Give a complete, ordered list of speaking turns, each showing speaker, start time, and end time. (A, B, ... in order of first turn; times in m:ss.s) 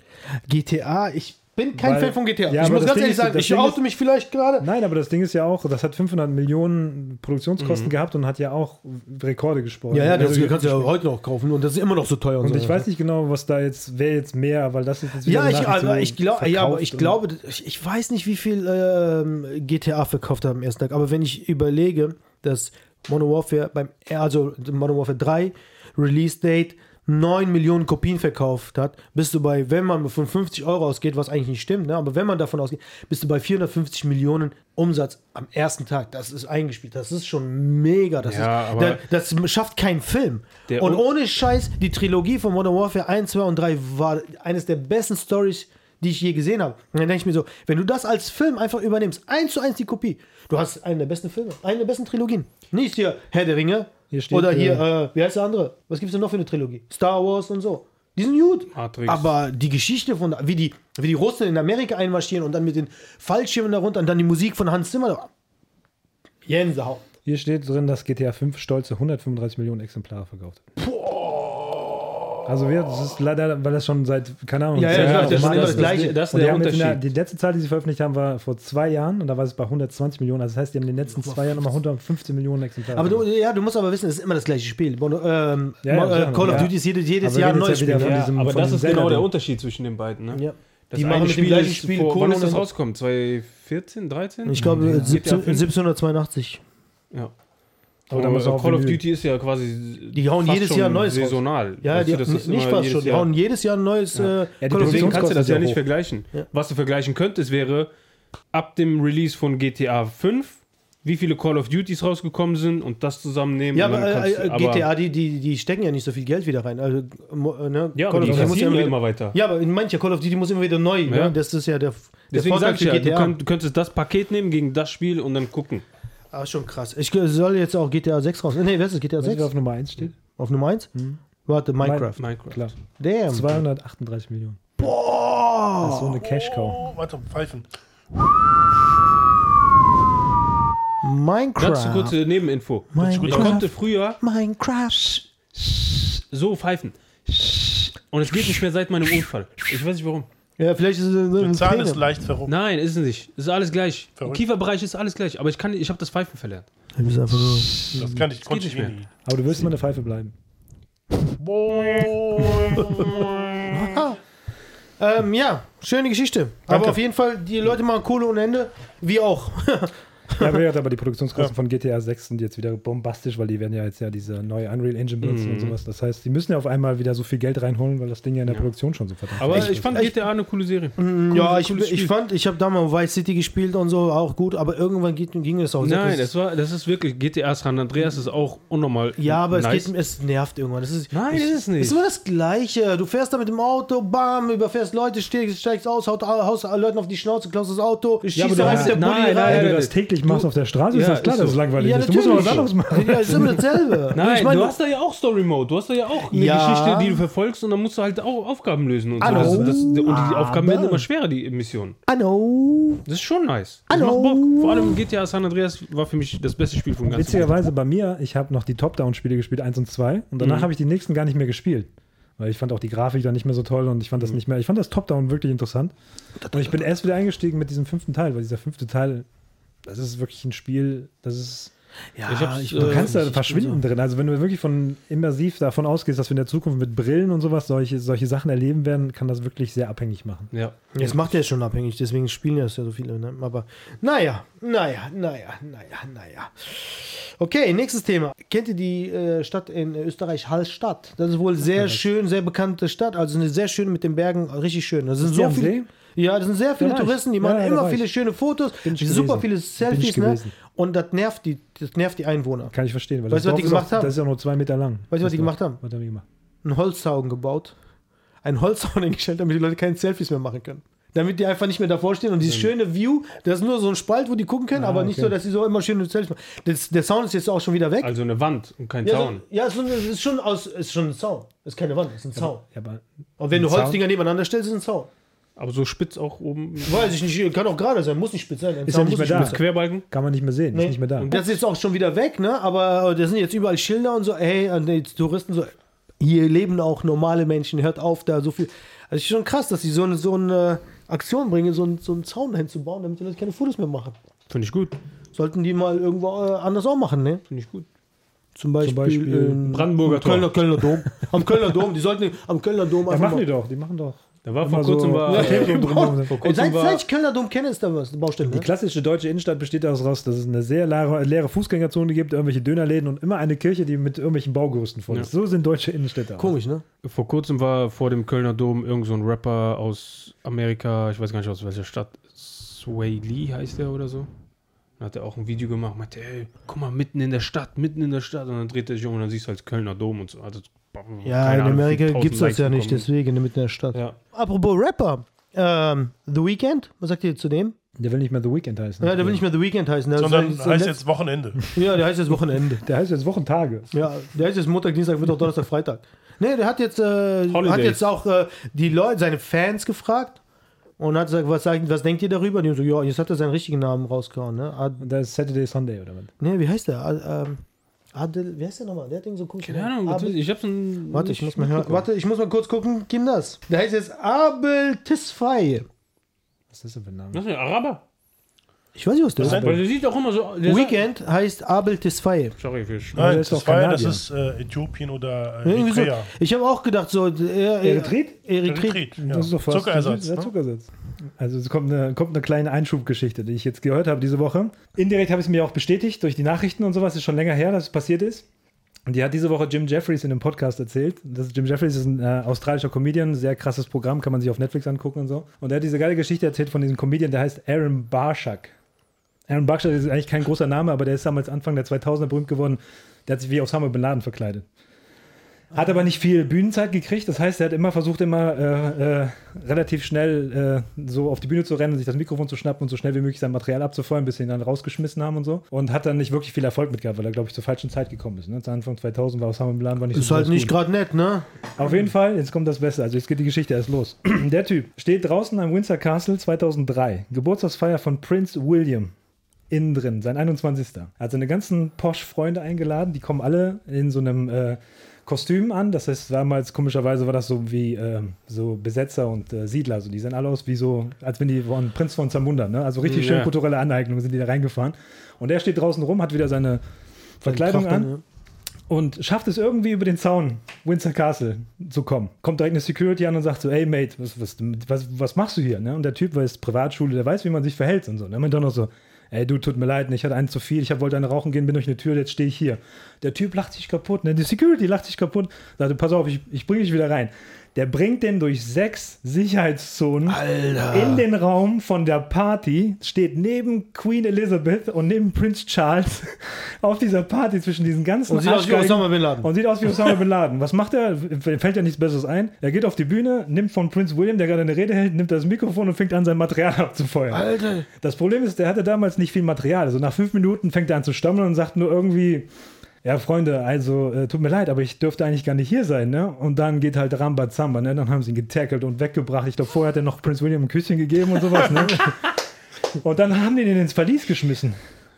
0:00.5-0:04.7 A
0:01.8-0:03.8 B
0:04.6-0:11.0 B
0:07.6-0:07.9 C
0:09.9-0:12.8 A
0:12.4-0:17.2 B
0:15.2-1:05.3 A
0:38.2-0:39.0 C
0:40.7-0:41.1 C
0:54.1-0:54.9 B
0:58.7-0:59.3 C
1:06.4-1:07.0 A
1:07.3-1:10.6 B
1:12.4-1:23.3 B
1:14.8-1:16.2 A
1:14.8-1:17.1 C
1:21.2-1:21.7 A
1:22.9-1:28.2 A
1:25.8-1:29.3 B
1:28.0-1:35.7 C
1:30.3-1:32.7 A
1:34.5-1:36.6 A
1:34.6-1:35.2 B
1:38.1-1:39.0 B
1:38.1-1:43.3 C
1:40.1-1:45.3 A
1:44.2-1:47.9 C
1:44.6-1:45.8 B
1:48.5-1:54.9 C
1:53.7-2:03.4 A
1:58.0-1:59.4 C
1:58.2-1:58.6 B
2:01.1-2:01.4 C
2:02.3-2:05.8 C
2:06.3-2:09.5 A
2:09.2-2:10.2 B
2:10.3-2:10.9 A
2:11.4-2:12.3 A
2:11.8-2:12.7 B
2:12.2-2:12.7 C
2:12.9-2:13.6 A
2:13.3-2:14.6 B
2:14.8-2:16.1 A
2:15.8-2:16.8 B
2:16.2-2:17.7 D
2:21.0-2:22.2 A
2:21.6-2:24.2 C
2:22.9-2:25.2 A
2:23.0-2:23.7 D
2:26.3-2:27.0 C
2:28.1-2:30.3 C
2:30.6-2:32.0 A
2:31.4-2:32.5 D
2:32.5-2:36.7 C
2:34.2-2:34.4 D
2:37.0-2:38.0 A
2:37.8-2:39.1 D
2:38.4-2:39.0 C
2:39.2-2:40.3 B
2:41.4-2:43.7 D
2:43.7-2:44.2 A
2:45.0-2:50.6 A
2:46.7-2:47.0 D
2:50.4-3:00.0 B
2:55.2-2:55.8 C
2:59.4-3:02.1 C
2:59.5-3:00.2 A
3:01.0-3:06.3 A
3:05.8-3:09.9 C
3:09.2-3:19.7 A
3:11.1-3:12.0 C
3:18.3-3:21.6 C
3:18.5-3:23.7 B
3:21.8-3:24.8 A
3:22.3-3:22.7 C
3:24.1-3:32.0 C
3:26.3-3:27.2 A
3:29.2-3:31.0 A
3:29.2-3:29.8 B
3:32.1-3:33.0 A
3:33.0-3:37.6 C
3:33.9-3:35.0 A
3:37.1-3:45.9 B
3:40.4-3:40.7 C
3:46.4-3:46.9 A
3:46.5-3:49.3 B
3:49.9-3:51.7 B
3:52.2-3:53.8 A
3:52.3-3:53.2 C
3:52.8-4:00.5 B
4:00.5-4:00.8 C
4:00.9-4:22.7 A
4:01.0-4:01.3 B
4:11.7-4:12.0 B
4:15.2-4:15.9 B
4:16.8-4:18.1 B
4:18.8-4:20.6 B
4:22.7-4:26.2 B
4:23.3-4:24.2 A
4:25.1-4:25.8 A
4:26.6-4:27.8 A
4:28.4-4:38.1 A
4:32.4-4:32.7 C
4:34.7-4:35.4 B
4:38.0-4:39.4 C
4:39.0-4:42.6 A
4:42.4-4:44.0 B
4:43.4-4:45.1 A
4:45.6-4:47.1 C
4:46.9-4:49.6 A
4:48.8-4:51.4 B
4:49.2-4:50.1 C
4:50.7-5:04.2 A
4:51.2-4:51.6 C
5:04.5-5:05.0 C
5:05.4-5:07.4 A
5:07.5-5:07.9 C
5:08.6-5:13.5 A
5:08.8-5:09.8 B
5:09.7-5:10.6 C
5:13.1-5:16.4 B
5:14.4-5:17.0 C
5:15.3-5:18.7 A
5:18.4-5:26.6 B
5:26.4-5:26.8 A
5:27.0-5:34.3 C
5:35.0-5:43.1 C
5:41.2-5:47.8 A
5:48.0-5:49.4 B
5:49.0-5:51.0 A
5:50.2-5:51.7 D
5:51.7-5:52.8 A
5:52.8-5:54.0 B
5:53.9-6:00.4 A
5:57.5-5:58.1 C
6:01.0-6:05.0 A
6:05.0-6:06.3 B
6:06.4-6:07.6 A
6:08.1-6:10.4 A
6:09.6-6:12.0 C
6:11.1-6:15.9 A
6:16.7-6:17.4 B
6:17.3-6:18.0 C
6:19.0-6:19.8 A
6:19.4-6:19.8 B
6:19.4-6:19.7 D
6:19.4-6:21.0 C
6:20.6-6:22.6 A
6:22.6-6:23.2 C
6:23.2-6:24.2 B
6:23.2-6:26.3 D
6:25.6-6:29.1 A
6:27.8-6:28.4 B
6:28.6-6:30.5 D
6:29.2-6:38.4 B
6:39.1-6:48.7 B
6:49.5-6:54.7 B
6:55.7-7:10.8 B
7:10.1-7:11.5 A
7:11.8-7:19.1 B
7:19.7-7:36.8 B
7:33.0-7:33.5 C
7:37.4-7:38.1 B
7:37.5-7:38.2 A
7:38.9-8:22.5 B
8:00.3-8:01.2 A
8:08.3-8:09.5 A
8:17.3-8:17.9 A
8:23.0-8:32.3 B
8:33.0-8:34.8 B